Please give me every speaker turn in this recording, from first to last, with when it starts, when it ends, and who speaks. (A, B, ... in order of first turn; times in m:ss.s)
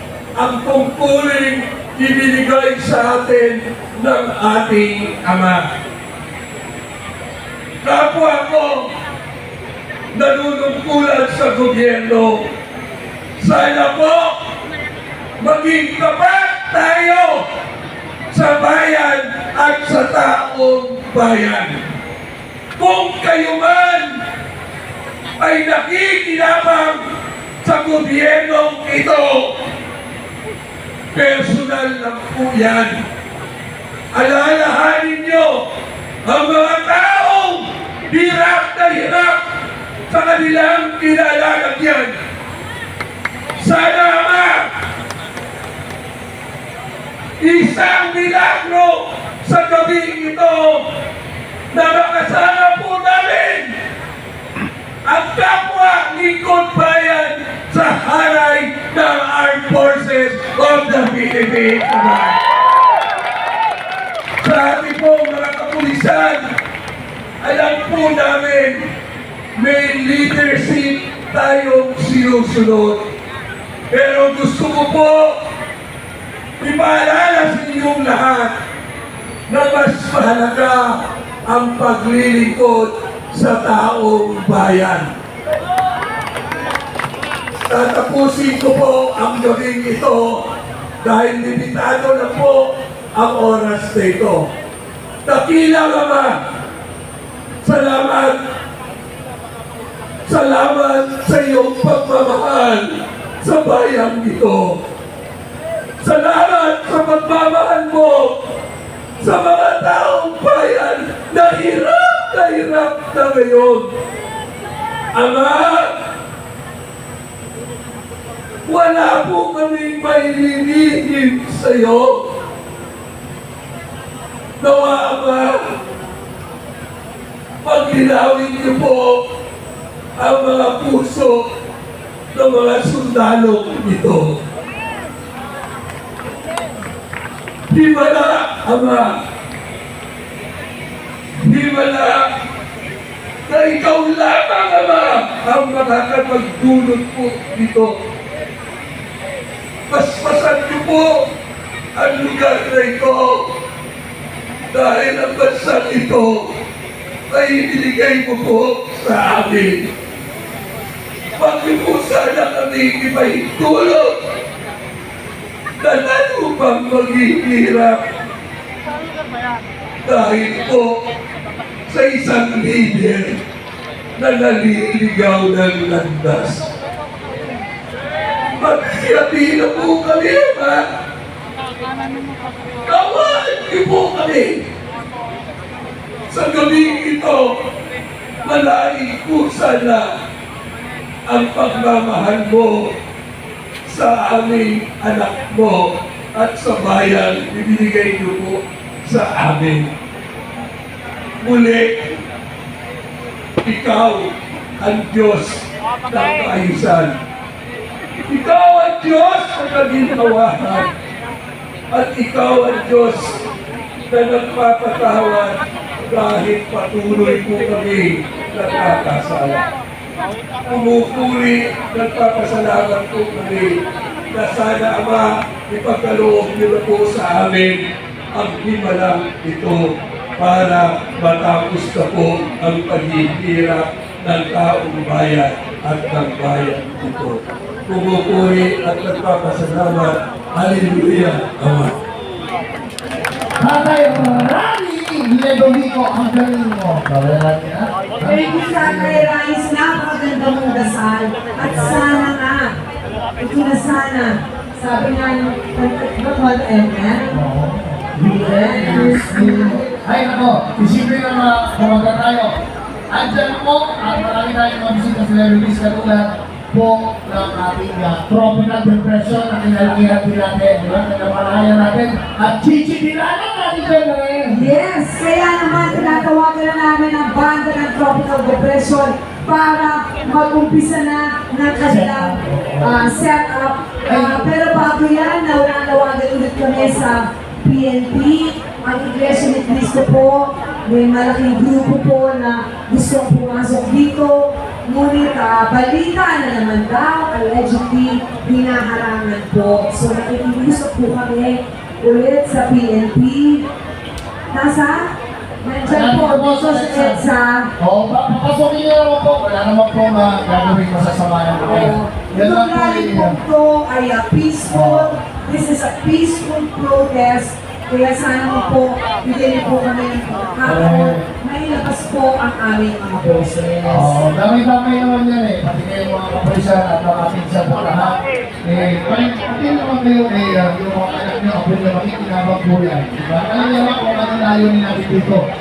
0:00.4-0:05.7 A
0:07.8-0:08.9 A
0:10.1-0:12.5 A
0:13.4-0:14.3 A
0:15.4-0:17.4 A
0:18.3-0:21.8 A
0:22.8-0:24.1 A
0:25.4-0:27.0 A
0:27.6-0:29.5 A
0:31.1-0:33.0 A
0:34.1-0:35.6 A
0:36.2-0:39.4 A
0:40.1-0:42.1 A
0:43.6-0:44.7 A
0:47.4-0:50.8 A
0:51.7-0:53.7 A
0:55.0-1:02.4 A
1:04.4-1:06.4 A
1:07.4-1:08.8 A
1:09.6-1:13.0 A
1:13.9-1:15.3 A
1:16.6-1:18.5 A
1:19.5-1:25.1 A
1:27.6-1:30.4 A
1:31.0-1:34.5 A
1:35.2-1:36.3 A
1:37.6-1:38.4 A
1:40.2-1:44.8 A
1:46.0-1:48.3 A
1:49.2-1:53.9 A
1:55.1-1:55.9 A
1:58.6-2:02.2 A
2:04.6-2:05.6 A
2:07.6-2:09.2 A
2:10.2-2:11.4 A
2:12.3-2:14.4 A
2:17.7-2:19.2 A
2:21.4-2:22.2 A
2:23.5-2:27.9 A
2:29.9-2:31.1 A
2:32.0-2:33.5 A
2:34.7-2:36.5 A
2:37.3-2:39.9 A
2:41.4-2:44.2 A
2:45.8-2:48.0 A
2:50.0-2:51.0 A
2:51.9-2:53.4 A
2:54.2-2:56.7 A
2:58.6-3:00.9 A
3:02.8-3:04.6 A
3:06.3-3:07.6 A
3:08.4-3:10.1 A
3:11.3-3:12.9 A
3:13.8-3:19.9 A
3:21.4-3:21.9 A
3:23.6-3:27.2 A
3:28.2-3:30.9 A
3:31.9-3:33.4 A
3:34.1-3:39.6 A
3:40.7-3:43.7 A
3:44.3-3:47.8 A
3:48.3-3:49.8 A
3:50.4-4:02.0 A
4:03.6-4:09.3 B
4:08.2-4:12.7 C
4:11.6-4:12.0 B
4:13.4-4:17.4 C
4:17.3-4:22.5 B
4:18.2-4:19.8 C
4:23.1-4:34.7 B
4:34.5-5:03.7 C
4:35.7-4:36.3 B
4:41.8-4:43.2 B
4:44.0-4:44.5 B
5:04.5-5:07.7 C
5:05.8-5:07.2 B
5:07.8-5:13.4 B
5:11.6-5:24.2 C
5:14.6-5:15.1 B
5:20.6-5:21.2 B
5:23.8-5:35.4 B